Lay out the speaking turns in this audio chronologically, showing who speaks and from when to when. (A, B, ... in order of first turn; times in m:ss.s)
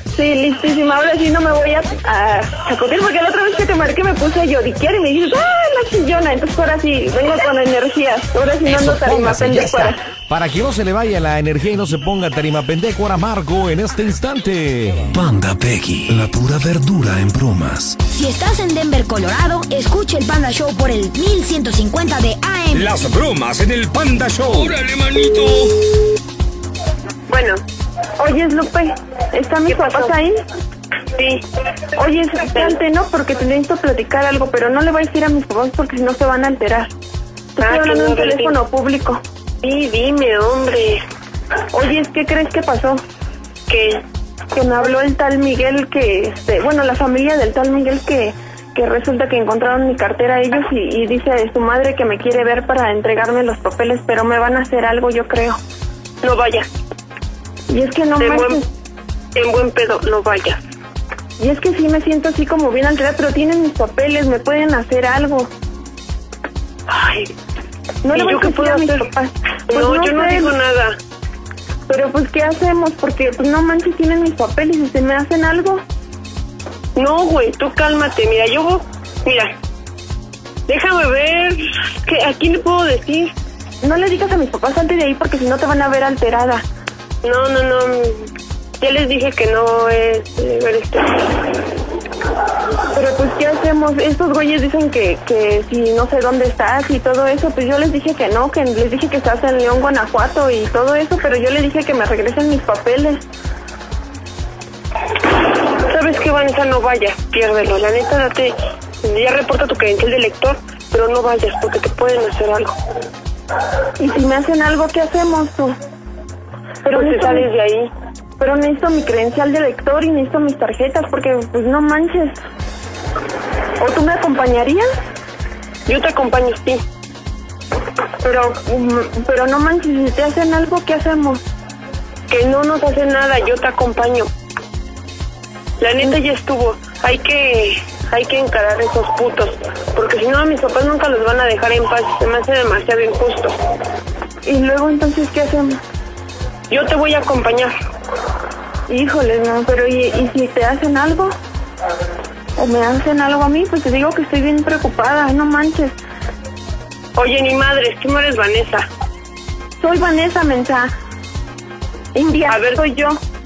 0:00.1-0:10.0 A
0:08.6-0:15.2 B
0:15.2-0:18.0 C
0:18.0-0:22.9 D
0:22.7-0:25.7 E
0:27.3-0:27.6 F
0:28.2-0:30.4 A
0:29.7-0:30.1 F
0:31.2-0:31.4 F
0:32.0-0:36.9 A
0:37.6-0:39.2 A
0:37.6-0:38.6 F
0:39.6-0:41.0 F
0:41.7-0:43.0 A
0:43.7-0:44.0 F
0:44.5-0:55.6 A
0:56.2-0:56.7 F
0:57.7-0:58.7 A
0:58.2-0:58.6 F
0:59.4-1:00.6 F
1:01.4-1:05.5 A
1:06.9-1:07.3 F
1:08.0-1:10.5 A
1:08.1-1:09.0 F
1:09.7-1:11.0 F
1:11.9-1:15.8 A
1:17.0-1:19.5 F
1:20.7-1:23.3 F
1:23.8-1:26.6 A
1:27.2-1:28.3 F
1:28.8-1:31.6 F
1:32.9-1:43.2 A
1:45.9-1:52.7 F
1:54.0-1:55.8 A
1:56.8-1:57.5 A
1:56.9-1:57.9 F
1:58.4-2:02.4 A
2:03.8-2:04.8 A
2:05.9-2:06.8 F
2:08.2-2:11.4 A
2:12.3-2:14.3 F
2:15.8-2:23.5 F
2:24.4-2:25.8 A
2:26.7-2:27.7 F
2:28.9-2:31.3 A
2:32.6-2:36.0 A
2:37.2-2:38.8 F
2:39.8-2:40.9 A
2:42.1-2:43.2 A
2:42.5-2:42.8 F